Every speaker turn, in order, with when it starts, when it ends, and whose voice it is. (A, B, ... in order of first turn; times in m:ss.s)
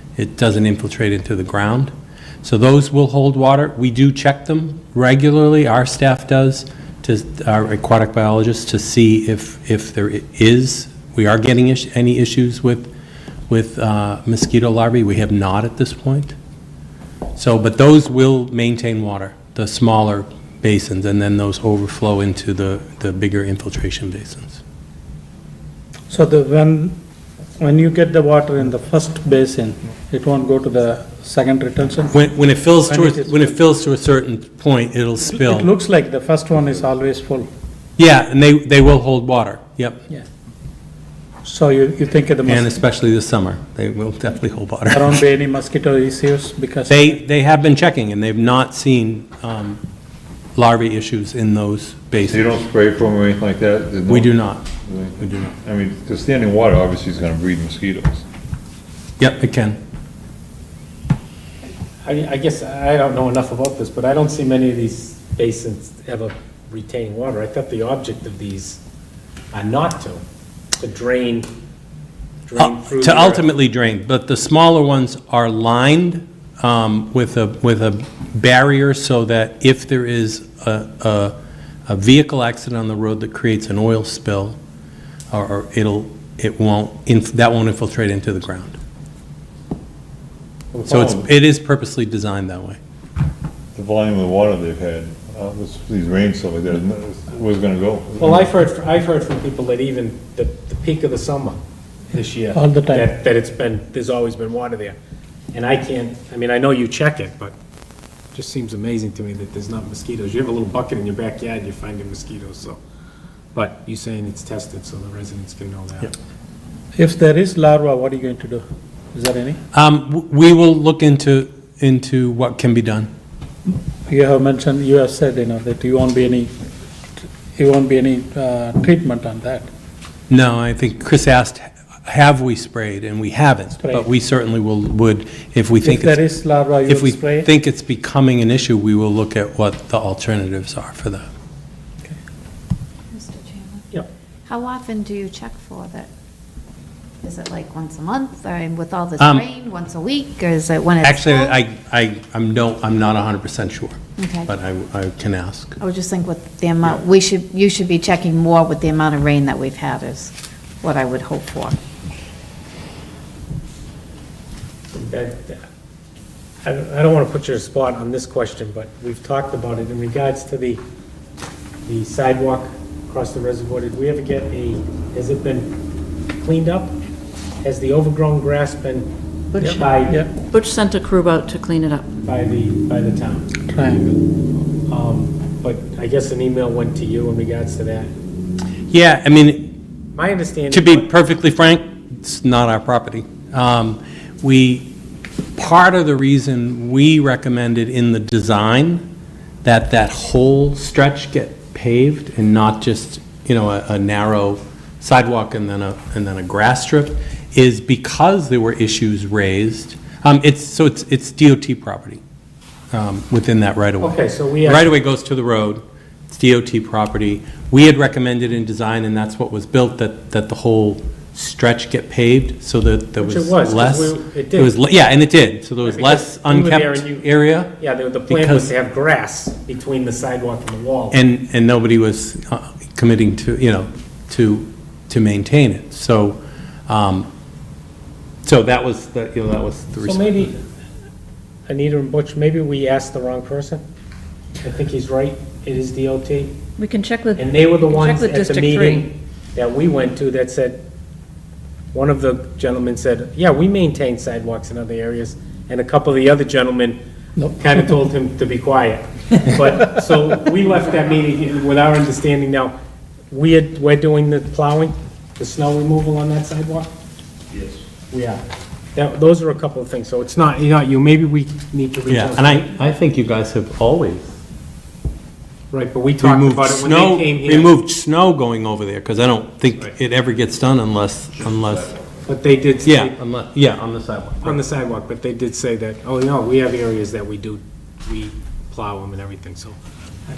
0:00.2-0:01.9 A
0:02.4-0:12.9 A
0:13.5-0:16.4 A
0:17.4-0:24.6 A
0:26.1-0:27.0 B
0:27.6-0:32.2 B
0:32.1-0:35.7 A
0:32.8-0:33.5 B
0:35.3-0:37.5 B
0:38.0-0:40.0 A
0:41.4-0:42.8 B
0:42.4-0:45.2 A
0:44.9-0:47.1 B
0:46.9-0:49.8 A
0:50.6-0:52.6 A
0:52.2-0:58.2 C
0:54.1-0:54.6 A
0:55.2-0:55.6 A
0:59.2-0:59.8 A
1:02.0-1:08.8 D
1:09.5-1:10.2 D
1:10.8-1:11.5 D
1:12.4-1:13.4 D
1:12.6-1:21.3 A
1:21.9-1:24.6 A
1:25.3-1:28.8 A
1:30.9-1:31.3 C
1:30.9-1:32.8 A
1:33.7-1:38.5 C
1:38.2-1:41.6 D
1:42.1-1:45.0 D
1:42.5-1:43.1 B
1:45.5-1:47.6 D
1:48.3-1:52.8 D
1:53.6-1:56.1 D
1:56.9-1:59.6 B
1:59.7-2:03.1 A
2:04.1-2:06.5 B
2:07.6-2:09.7 B
2:10.3-2:16.2 A
2:13.8-2:14.1 B
2:15.8-2:17.5 B
2:16.8-2:21.3 A
2:23.1-2:23.8 E
2:24.5-2:26.1 E
2:27.2-2:31.6 E
2:29.2-2:29.5 A
2:31.0-2:35.8 A
2:34.2-2:34.5 E
2:35.8-2:41.8 E
2:44.9-2:45.6 D
2:46.6-2:50.8 D
2:51.8-2:55.7 D
2:56.4-2:57.0 D
2:57.6-2:59.1 D
2:59.5-3:02.1 F
2:59.6-3:00.2 D
3:02.2-3:03.5 D
3:03.6-3:04.2 B
3:04.9-3:08.1 D
3:08.9-3:09.7 A
3:10.2-3:11.1 D
3:10.7-3:14.9 A
3:15.6-3:19.1 A
3:19.6-3:32.2 A
3:32.9-3:47.7 A
3:34.0-3:34.9 D
3:43.2-3:44.7 D
3:45.8-3:51.2 D
3:48.3-3:48.7 A
3:51.1-3:57.3 A
3:58.4-4:00.5 A
4:00.0-4:00.5 D
4:01.7-4:03.8 D
4:04.6-4:06.6 D
4:06.8-4:09.1 F
4:07.3-4:10.8 D
4:11.9-4:17.0 D
4:17.6-4:22.7 D
4:23.3-4:26.9 D
4:28.1-4:28.4 D
4:28.9-4:32.7 D
4:32.1-4:34.4 A
4:35.7-4:37.8 D
4:36.2-4:41.9 A
4:42.2-4:43.2 D
4:42.8-4:44.6 A
4:44.4-4:49.8 D